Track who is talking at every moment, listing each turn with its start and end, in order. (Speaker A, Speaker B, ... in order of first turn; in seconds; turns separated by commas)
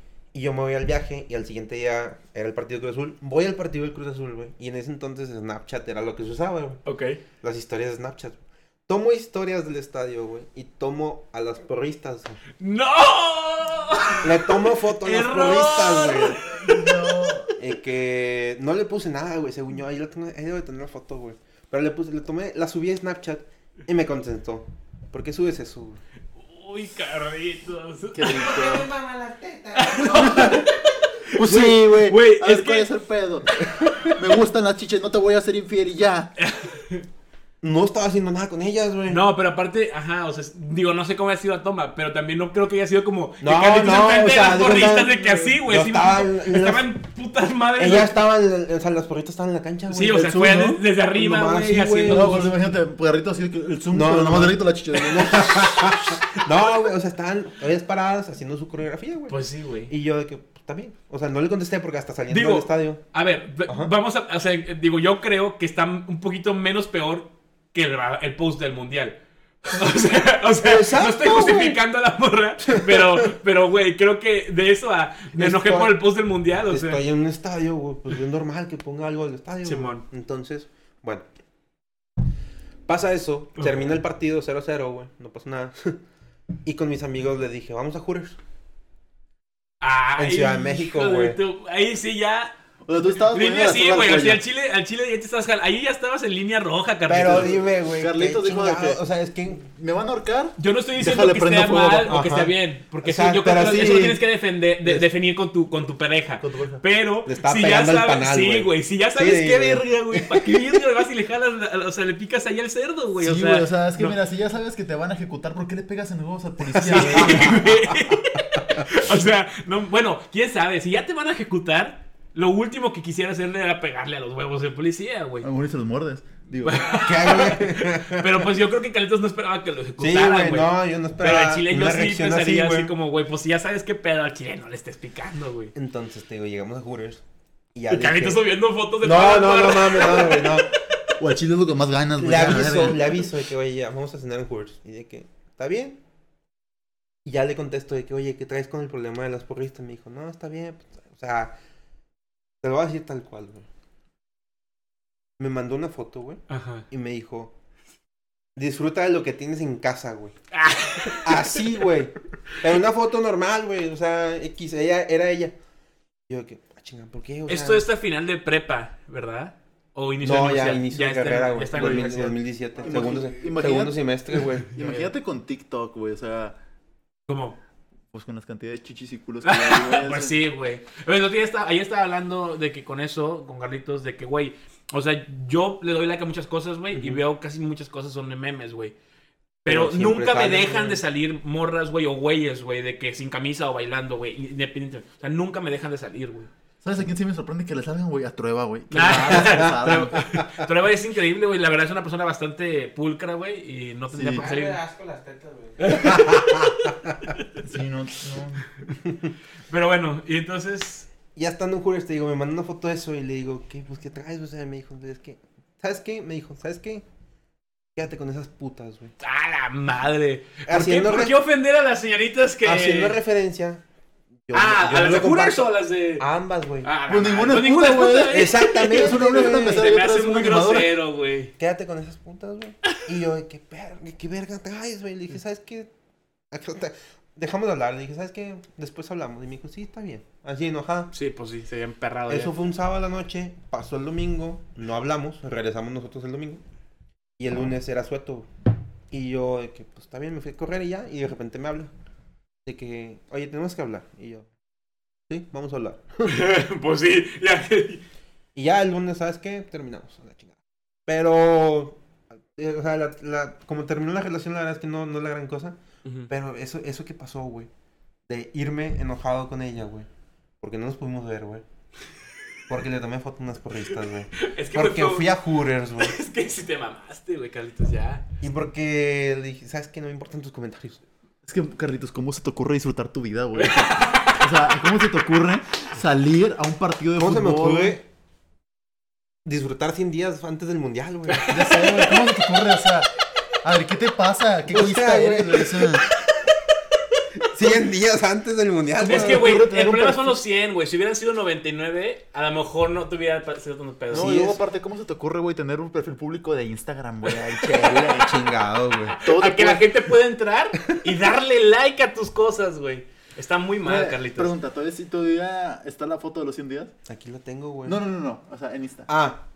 Speaker A: 0.3-6.8, Speaker B: 6.8-7.2, Speaker A: 7.4-8.4, Speaker A: 8.9-12.4, Speaker B: 12.6-17.5, Speaker A: 14.2-16.4, Speaker C: 16.5-17.5, Speaker A: 17.6-26.0, Speaker B: 26.4-28.7, Speaker C: 28.1-28.9, Speaker A: 28.4-30.6, Speaker B: 29.8-32.9, Speaker C: 30.1-30.6, Speaker C: 31.4-36.3, Speaker A: 33.8-34.1, Speaker B: 36.4-37.0, Speaker A: 37.6-39.2, Speaker B: 39.1-48.1, Speaker A: 43.4-46.9, Speaker A: 47.8-52.4, Speaker B: 49.9-52.5, Speaker C: 50.2-50.7, Speaker C: 52.1-55.8, Speaker A: 53.9-59.4, Speaker B: 59.3-59.9, Speaker A: 59.9-63.0, Speaker B: 62.3-77.0, Speaker A: 63.7-63.9, Speaker A: 70.6-71.8, Speaker A: 72.7-73.3, Speaker A: 75.3-76.0, Speaker A: 76.7-81.2, Speaker B: 79.6-80.0, Speaker A: 82.9-86.0, Speaker A: 86.7-88.4, Speaker B: 89.8-92.5, Speaker A: 90.2-91.4, Speaker C: 92.9-94.4, Speaker B: 93.2-97.5, Speaker A: 97.1-99.6, Speaker C: 97.3-102.2, Speaker B: 100.6-114.2, Speaker A: 102.1-104.2, Speaker C: 103.6-104.2, Speaker C: 106.4-106.8, Speaker A: 107.3-110.6, Speaker C: 113.2-117.6, Speaker A: 116.8-118.1, Speaker B: 116.8-125.5, Speaker C: 125.4-126.8, Speaker B: 126.6-135.7, Speaker A: 126.9-128.5, Speaker A: 130.0-132.9, Speaker A: 135.8-137.2, Speaker A: 137.8-138.4, Speaker B: 137.9-140.9, Speaker A: 139.0-140.7, Speaker C: 141.2-143.2, Speaker A: 142.2-146.0, Speaker A: 147.2-151.5, Speaker A: 152.6-153.7, Speaker A: 155.4-157.5, Speaker B: 156.5-156.8, Speaker A: 158.6-160.3, Speaker B: 160.5-161.6, Speaker A: 161.1-165.5, Speaker A: 166.3-167.9, Speaker B: 167.5-172.4, Speaker A: 170.2-174.8, Speaker C: 171.8-172.1, Speaker C: 172.8-176.6, Speaker B: 177.3-177.6, Speaker C: 178.1-180.4, Speaker B: 179.4-188.9, Speaker A: 186.9-187.2, Speaker B: 189.7-196.5, Speaker A: 189.7-191.0, Speaker C: 196.8-200.2, Speaker B: 198.9-204.8, Speaker A: 199.3-200.7, Speaker C: 204.1-204.4, Speaker A: 204.3-207.3, Speaker B: 205.8-207.6, Speaker C: 207.6-208.7, Speaker A: 209.1-209.3, Speaker B: 209.7-211.1, Speaker A: 211.4-217.0, Speaker A: 218.0-219.1, Speaker B: 219.2-223.2, Speaker A: 220.7-221.4, Speaker A: 222.6-223.8, Speaker A: 224.5-226.9, Speaker B: 224.5-226.2, Speaker B: 226.8-231.5, Speaker C: 227.1-230.9, Speaker A: 228.3-229.9, Speaker A: 231.6-235.9, Speaker A: 236.5-241.1, Speaker B: 241.1-242.5, Speaker A: 242.3-246.6, Speaker A: 247.4-248.5, Speaker A: 249.1-251.9, Speaker A: 252.7-254.5, Speaker A: 255.3-256.4, Speaker B: 256.2-258.0, Speaker A: 258.6-260.6, Speaker A: 261.1-262.0, Speaker A: 262.5-265.8, Speaker A: 266.3-267.7, Speaker A: 268.3-270.1, Speaker A: 270.6-271.6, Speaker A: 272.7-276.2, Speaker B: 274.3-275.3, Speaker B: 276.0-278.2, Speaker A: 278.4-281.0, Speaker C: 281.4-288.0, Speaker B: 283.5-284.7, Speaker A: 287.2-288.0, Speaker A: 289.4-291.7, Speaker B: 291.3-292.3, Speaker C: 291.5-293.1, Speaker C: 293.6-296.0, Speaker A: 294.7-296.1, Speaker A: 297.5-299.6, Speaker C: 299.0-300.4, Speaker B: 299.0-304.4, Speaker A: 304.1-304.6, Speaker C: 304.1-308.4, Speaker B: 307.3-308.3, Speaker A: 307.8-309.2, Speaker B: 309.1-314.5, Speaker C: 309.2-309.9, Speaker C: 313.8-316.9, Speaker A: 317.1-318.0, Speaker C: 317.9-319.1, Speaker A: 319.1-319.4